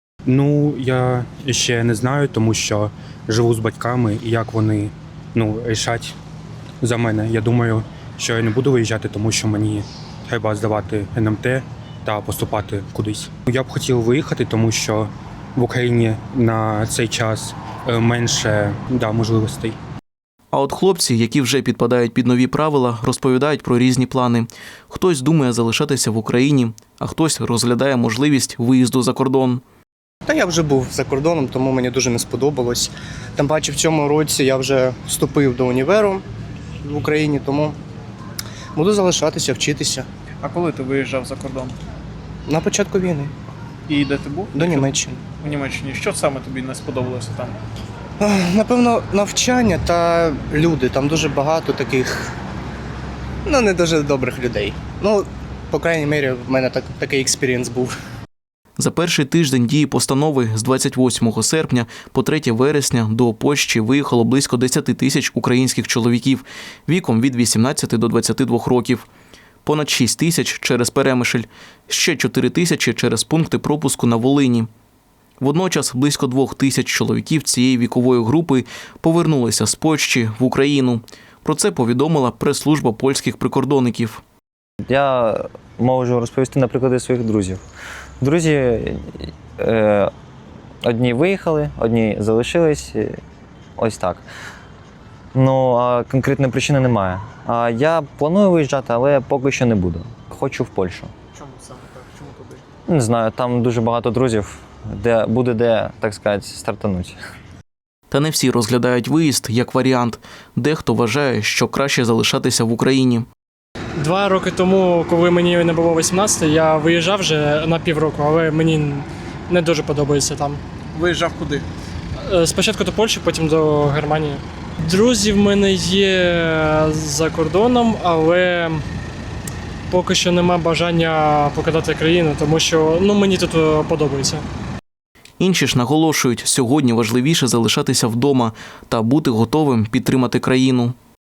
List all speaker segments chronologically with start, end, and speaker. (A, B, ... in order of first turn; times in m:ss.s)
0:00.2-0:06.1 A
0:06.8-0:19.8 A
0:20.5-0:29.6 B
0:30.2-0:36.2 C
0:36.8-0:37.8 C
0:38.7-0:40.1 C
0:40.4-0:41.7 D
0:42.5-0:43.3 C
0:43.9-0:47.6 D
0:44.5-0:45.2 C
0:48.2-0:52.3 C
0:53.4-0:58.0 C
0:58.8-1:09.1 B
1:09.6-1:14.7 B
1:15.4-1:24.2 B
1:24.9-1:27.6 E
1:28.2-1:30.1 E
1:30.8-1:33.2 E
1:33.8-1:34.2 E
1:35.3-1:41.1 E
1:41.4-1:42.6 D
1:42.9-1:47.2 E
1:48.1-1:53.3 B
1:54.0-2:00.6 F
2:00.9-2:01.6 D
2:02.3-2:08.8 F
2:09.9-2:14.4 F
2:15.4-2:20.9 B